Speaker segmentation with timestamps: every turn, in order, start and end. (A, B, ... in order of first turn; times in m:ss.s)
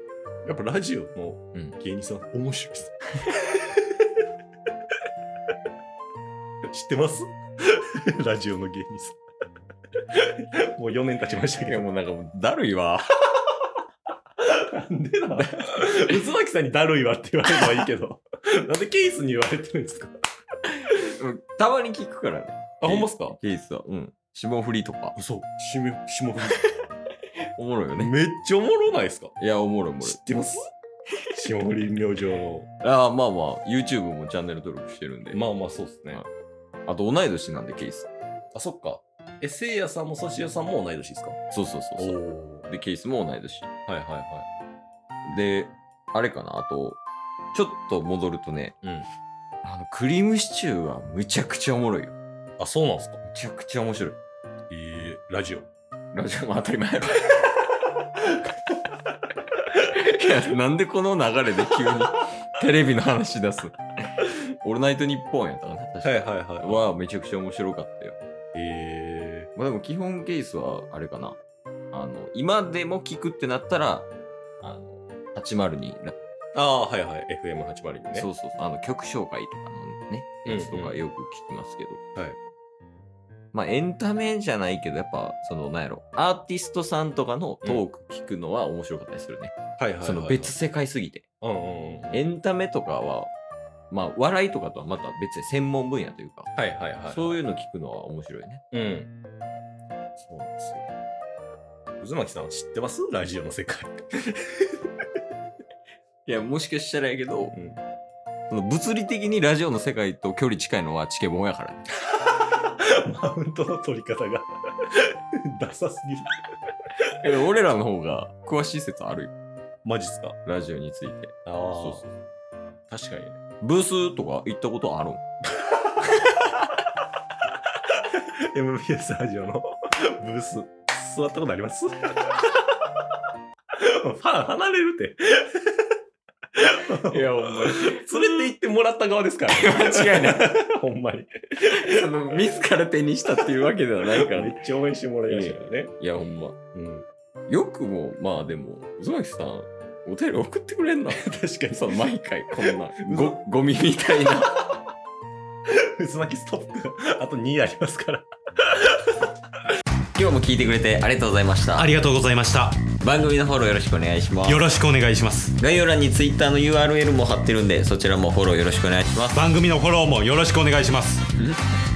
0:00.4-0:03.8 A
0:06.7-0:09.2 A
0:10.1-0:11.8 A
0:11.4-0:13.0 B
0:14.4-0:20.1 A
0:15.3-0:16.2 B
0:20.9-0:25.2 B
0:22.8-0:23.4 A
0:25.2-0:26.7 A
0:27.6-0:28.1 B
0:28.0-0:29.3 A
0:29.4-0:30.2 B
0:30.0-0:30.7 A
0:31.3-0:32.7 A
0:32.8-0:35.4 B
0:35.3-0:36.2 A
0:36.8-0:38.1 B
0:38.5-0:41.4 A
0:41.5-0:43.7 B
0:42.0-0:42.7 A
0:43.9-0:44.5 A
0:45.2-0:47.0 B
0:47.5-0:48.8 B
0:49.6-0:52.1 B
0:52.6-0:53.2 A
0:53.3-0:54.2 B
0:54.7-0:55.7 A
0:56.1-0:57.4 B
0:59.8-1:03.8 B
1:04.6-1:08.2 B
1:06.0-1:06.8 A
1:08.5-1:09.5 A
1:09.6-1:11.4 B
1:11.9-1:14.1 B
1:14.6-1:16.1 B
1:16.5-1:18.3 A
1:18.1-1:22.0 B
1:20.4-1:21.0 A
1:23.5-1:31.2 B
1:29.8-1:30.6 A
1:31.4-1:32.2 A
1:32.1-1:33.3 B
1:33.9-1:36.5 B
1:36.6-1:37.3 A
1:37.1-1:38.6 B
1:38.7-1:39.1 A
1:40.2-1:40.8 A
1:42.0-1:44.7 A
1:46.2-1:47.5 B
1:47.5-1:47.8 A
1:48.5-1:51.8 B
1:53.0-1:56.3 A
1:57.2-1:59.3 B
1:59.8-2:00.4 A
2:00.4-2:02.1 B
2:01.4-2:02.0 A
2:02.9-2:03.4 A
2:03.6-2:05.2 B
2:05.6-2:06.4 A
2:08.1-2:12.4 A
2:13.8-2:15.6 A
2:16.6-2:22.0 A
2:17.1-2:18.4 B
2:19.5-2:20.5 B
2:21.8-2:24.6 B
2:24.2-2:25.9 A
2:25.3-2:26.6 B
2:26.7-2:27.0 A
2:27.5-2:31.2 B
2:31.1-2:32.0 A
2:31.7-2:34.6 B
2:32.6-2:33.4 A
2:36.0-2:38.3 A
2:40.1-2:41.9 B
2:41.8-2:42.9 C
2:43.0-2:44.7 B
2:44.4-2:45.6 C
2:45.6-2:49.4 B
2:49.3-2:51.3 C
2:51.3-2:51.6 B